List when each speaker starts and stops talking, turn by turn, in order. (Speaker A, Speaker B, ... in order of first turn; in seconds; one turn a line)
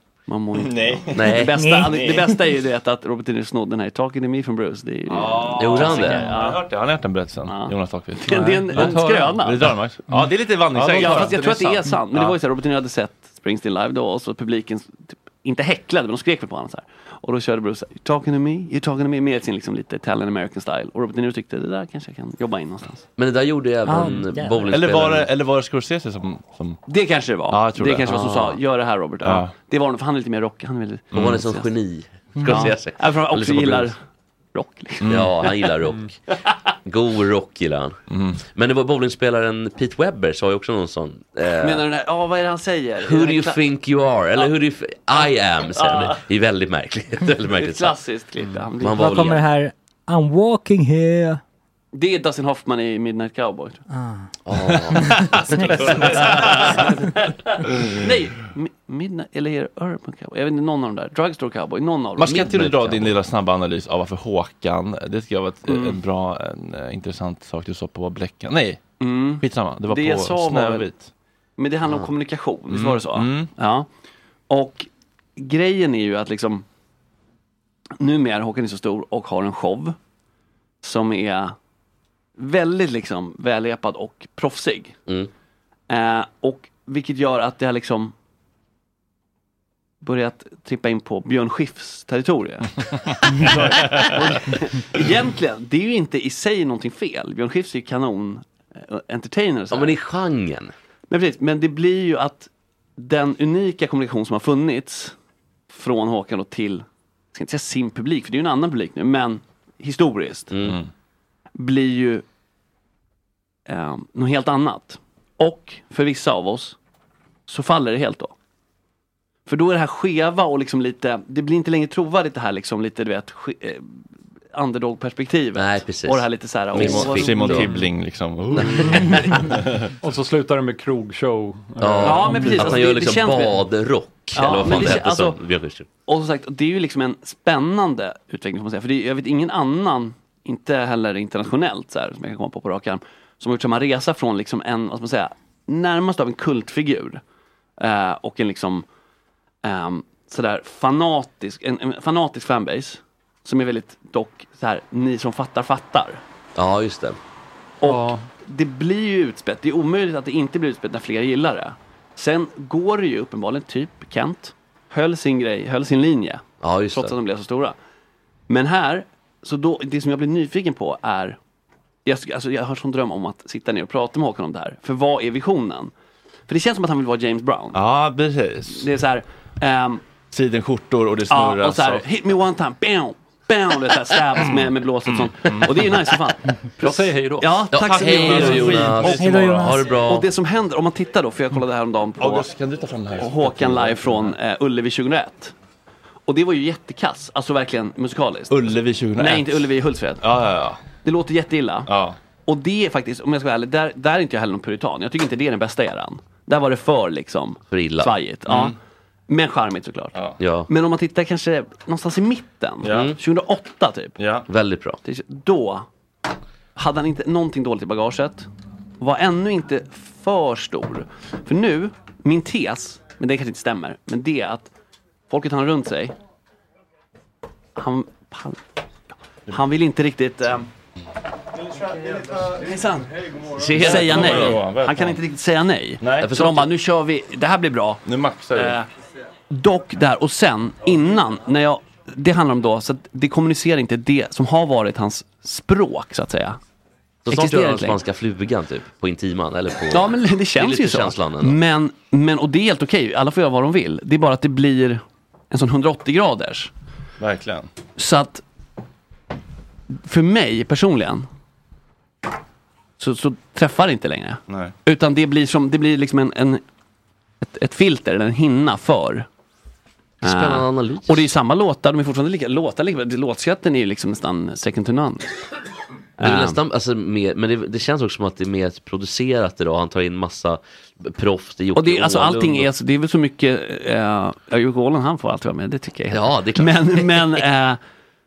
Speaker A: 0.3-6.6
Speaker B: 0.6-2.3
Speaker C: 1.1-1.8
Speaker D: 1.6-1.9
Speaker B: 5.1-12.4
Speaker C: 5.6-6.4
Speaker A: 7.5-9.8
Speaker A: 10.7-23.0
Speaker C: 23.2-25.3
Speaker D: 23.9-24.7
Speaker B: 24.7-26.8
Speaker A: 26.9-31.7
Speaker B: 27.5-28.3
Speaker B: 29.2-29.5
Speaker B: 31.1-31.4
Speaker C: 31.1-33.9
Speaker A: 32.4-34.0
Speaker A: 34.5-35.7
Speaker B: 35.0-35.3
Speaker C: 35.1-36.1
Speaker C: 36.8-41.8
Speaker B: 38.1-38.4
Speaker A: 41.6-43.6
Speaker C: 43.0-47.9
Speaker A: 45.1-46.2
Speaker A: 47.5-49.4
Speaker C: 48.8-49.4
Speaker D: 48.9-51.4
Speaker A: 51.9-53.8
Speaker D: 53.9-54.3
Speaker C: 54.5-55.7
Speaker D: 54.9-55.9
Speaker A: 55.7-62.7
Speaker B: 55.9-56.6
Speaker B: 62.2-68.8
Speaker C: 62.3-63.1
Speaker A: 65.7-66.0
Speaker A: 69.0-70.9
Speaker B: 69.4-71.1
Speaker A: 71.6-73.9
Speaker B: 72.7-73.5
Speaker A: 74.5-76.6
Speaker A: 78.0-79.9
Speaker A: 80.8-81.5
Speaker A: 82.4-85.0
Speaker A: 85.9-88.1
Speaker A: 90.0-100.0
Speaker C: 99.7-100.7
Speaker A: 101.1-105.1
Speaker A: 105.7-110.5
Speaker C: 110.5-110.8
Speaker B: 110.6-110.9
Speaker A: 111.6-112.2
Speaker A: 113.7-116.8
Speaker A: 117.5-118.3
Speaker A: 119.5-124.0
Speaker A: 124.5-127.7
Speaker C: 125.5-127.8
Speaker B: 126.7-129.9
Speaker E: 127.6-127.9
Speaker C: 128.6-129.5
Speaker E: 130.0-132.8
Speaker C: 131.8-135.8
Speaker B: 131.9-132.5
Speaker A: 132.0-133.6
Speaker A: 134.3-135.4
Speaker A: 136.1-147.2
Speaker A: 147.8-148.8
Speaker A: 149.6-156.2
Speaker C: 156.6-157.2
Speaker A: 157.8-167.8
Speaker E: 157.8-158.3
Speaker C: 166.6-167.1
Speaker A: 168.5-171.4
Speaker A: 172.0-175.9
Speaker A: 176.5-177.8
Speaker B: 177.7-178.9
Speaker A: 178.7-180.0
Speaker B: 180.3-182.0
Speaker A: 181.3-189.2
Speaker B: 185.1-185.9
Speaker B: 186.8-189.7
Speaker C: 187.7-190.3
Speaker D: 189.2-189.8
Speaker A: 189.9-192.5
Speaker B: 192.2-194.3
Speaker A: 193.2-195.5
Speaker A: 196.3-198.6
Speaker B: 198.5-199.6
Speaker A: 199.2-200.3
Speaker B: 200.2-200.8
Speaker A: 200.9-201.9
Speaker B: 201.8-202.2
Speaker A: 202.4-208.7
Speaker C: 207.7-208.1
Speaker B: 208.5-208.8
Speaker A: 209.3-210.1
Speaker C: 210.4-210.7
Speaker A: 210.7-214.2
Speaker B: 212.8-213.1
Speaker C: 212.9-213.1
Speaker B: 214.2-214.4
Speaker C: 214.5-215.0
Speaker A: 215.0-215.8
Speaker A: 216.8-218.5
Speaker A: 219.0-224.7
Speaker A: 225.3-226.1
Speaker A: 227.8-228.6
Speaker A: 229.5-230.7
Speaker A: 232.2-238.0
Speaker C: 233.5-234.6
Speaker B: 233.8-235.2
Speaker B: 236.0-236.3
Speaker C: 236.2-236.7
Speaker B: 238.0-238.8
Speaker A: 238.5-238.9
Speaker A: 239.5-246.6
Speaker C: 247.2-251.6
Speaker A: 247.3-248.0
Speaker A: 249.9-256.7
Speaker B: 257.2-257.7
Speaker A: 258.0-258.4
Speaker A: 259.9-261.3
Speaker A: 263.0-266.6
Speaker A: 267.4-269.3
Speaker C: 270.2-271.3
Speaker A: 270.2-275.3
Speaker A: 276.2-276.6
Speaker C: 276.2-282.7
Speaker A: 281.7-287.8
Speaker C: 286.1-287.4